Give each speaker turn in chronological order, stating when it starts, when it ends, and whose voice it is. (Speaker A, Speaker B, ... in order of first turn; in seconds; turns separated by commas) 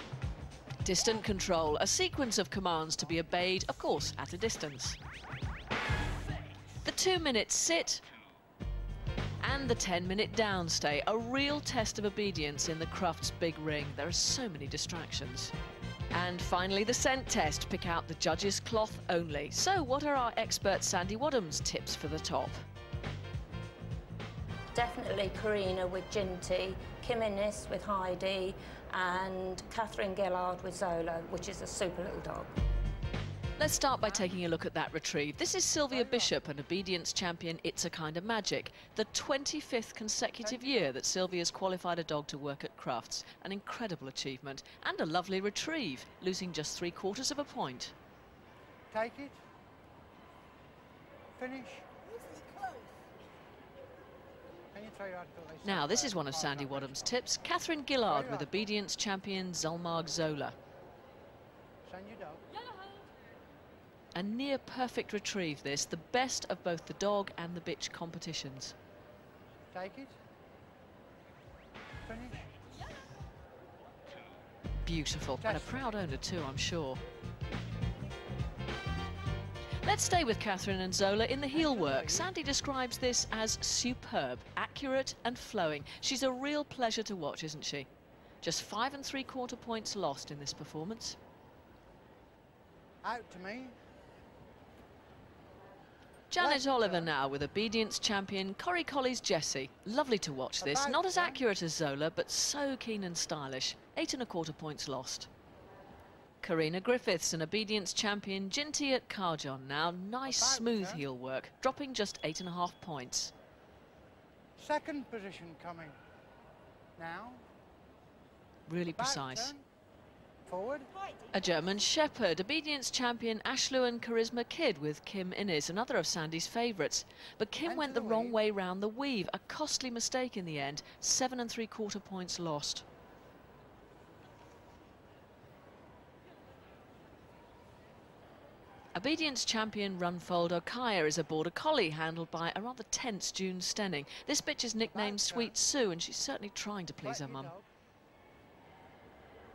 Speaker A: 0.8-5.0, Speaker A: 6.8-8.0, Speaker A: 9.4-15.5, Speaker A: 16.1-22.6, Speaker B: 24.7-32.5, Speaker A: 33.6-47.9, Speaker C: 35.9-36.4, Speaker C: 40.4-40.8, Speaker C: 48.9-49.4, Speaker C: 51.4-51.9, Speaker C: 54.7-57.2, Speaker A: 55.6-60.5, Speaker C: 58.1-58.7, Speaker C: 61.8-62.4, Speaker A: 64.1-68.7, Speaker C: 69.7-70.1, Speaker C: 72.0-72.5, Speaker A: 74.8-77.0, Speaker C: 75.4-75.8, Speaker A: 79.8-87.9, Speaker C: 81.5-82.2, Speaker A: 88.4-91.2, Speaker C: 93.0-93.7, Speaker A: 96.3-105.3, Speaker C: 96.4-97.1, Speaker C: 100.6-101.4, Speaker A: 106.4-113.3, Speaker C: 110.2-111.0, Speaker C: 114.6-116.0, Speaker C: 117.0-117.4, Speaker A: 118.7-119.5, Speaker C: 118.9-119.6, Speaker C: 120.5-120.9, Speaker A: 121.3-132.8, Speaker C: 127.6-128.4, Speaker A: 138.9-147.5, Speaker C: 144.9-145.5, Speaker C: 147.0-147.6